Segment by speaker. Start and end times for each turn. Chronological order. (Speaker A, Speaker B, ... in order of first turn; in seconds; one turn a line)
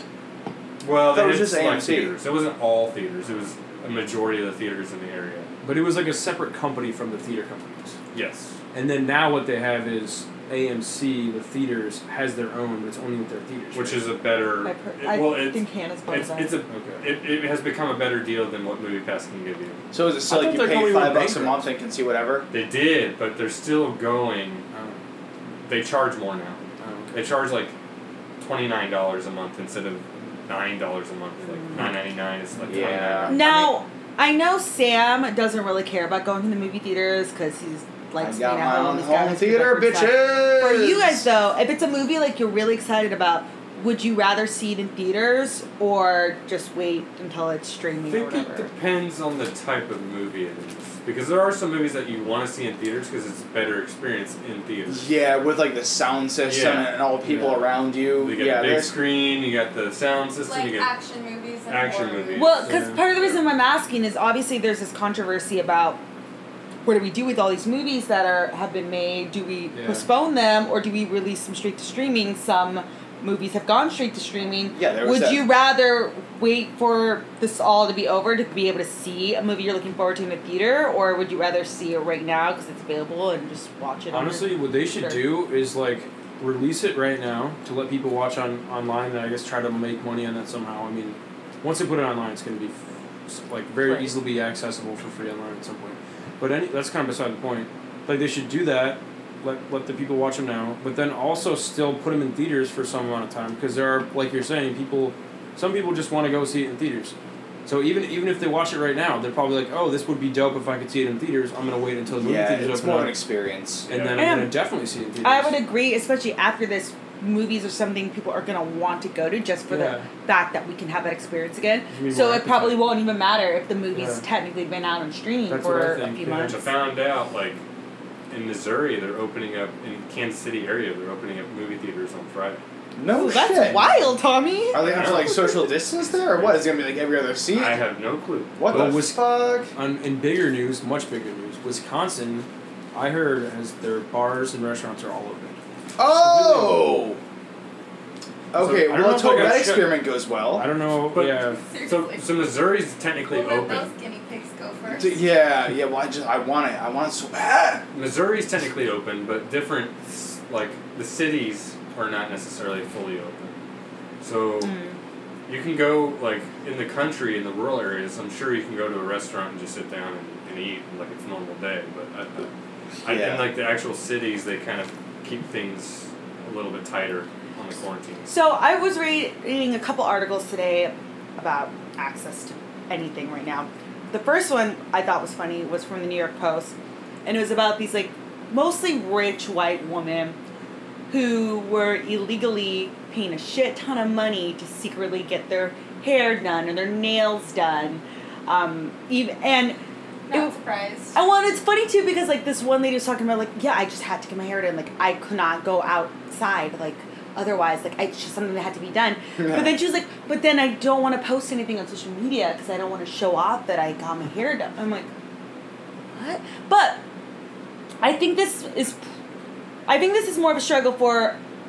Speaker A: 0.8-5.5
Speaker B: 1.0-2.1
Speaker C: 5.6-8.0
Speaker A: 8.1-8.5
Speaker C: 8.7-14.1
Speaker A: 13.7-19.8
Speaker D: 14.6-16.5
Speaker C: 16.7-17.1
Speaker B: 19.9-22.5
Speaker C: 20.2-21.6
Speaker A: 22.5-24.6
Speaker C: 24.7-25.0
Speaker A: 25.6-27.7
Speaker C: 26.8-27.2
Speaker A: 28.4-33.7
Speaker C: 32.6-33.0
Speaker B: 32.7-33.5
Speaker D: 33.3-48.7
Speaker B: 38.2-41.2
Speaker A: 48.1-55.1
Speaker B: 54.9-59.0
Speaker A: 56.5-57.0
Speaker C: 57.2-57.6
Speaker A: 58.1-60.9
Speaker E: 60.4-62.6
Speaker A: 61.7-63.4
Speaker D: 62.4-66.0
Speaker C: 62.6-63.0
Speaker D: 66.8-85.3
Speaker C: 69.7-70.0
Speaker B: 74.7-75.5
Speaker C: 84.1-107.1
Speaker D: 93.8-94.2
Speaker C: 107.7-113.1
Speaker B: 112.2-113.9
Speaker C: 113.9-115.6
Speaker A: 113.9-114.3
Speaker D: 114.2-114.6
Speaker D: 115.2-126.6
Speaker C: 119.7-120.1
Speaker C: 121.9-122.9
Speaker C: 123.9-124.2
Speaker C: 125.5-126.7
Speaker A: 126.5-127.6
Speaker A: 128.3-132.6
Speaker B: 132.9-134.0
Speaker D: 133.1-135.1
Speaker B: 134.7-137.8
Speaker A: 134.8-135.4
Speaker A: 136.3-136.6
Speaker A: 137.5-138.9
Speaker B: 138.6-139.7
Speaker C: 138.7-147.0
Speaker B: 146.0-147.2
Speaker B: 148.5-150.7
Speaker C: 148.6-150.0
Speaker C: 150.5-151.6
Speaker A: 151.1-153.9
Speaker E: 151.6-152.3
Speaker E: 153.2-155.2
Speaker B: 154.9-157.8
Speaker A: 157.9-163.6
Speaker A: 164.2-164.7
Speaker D: 164.6-165.0
Speaker A: 165.5-172.5
Speaker A: 173.0-178.3
Speaker B: 173.1-173.5
Speaker D: 178.3-186.7
Speaker D: 187.2-190.4
Speaker D: 191.1-199.8
Speaker E: 200.3-201.2
Speaker D: 201.1-215.1
Speaker B: 209.4-209.7
Speaker D: 216.1-217.0
Speaker D: 218.0-219.0
Speaker D: 219.9-221.4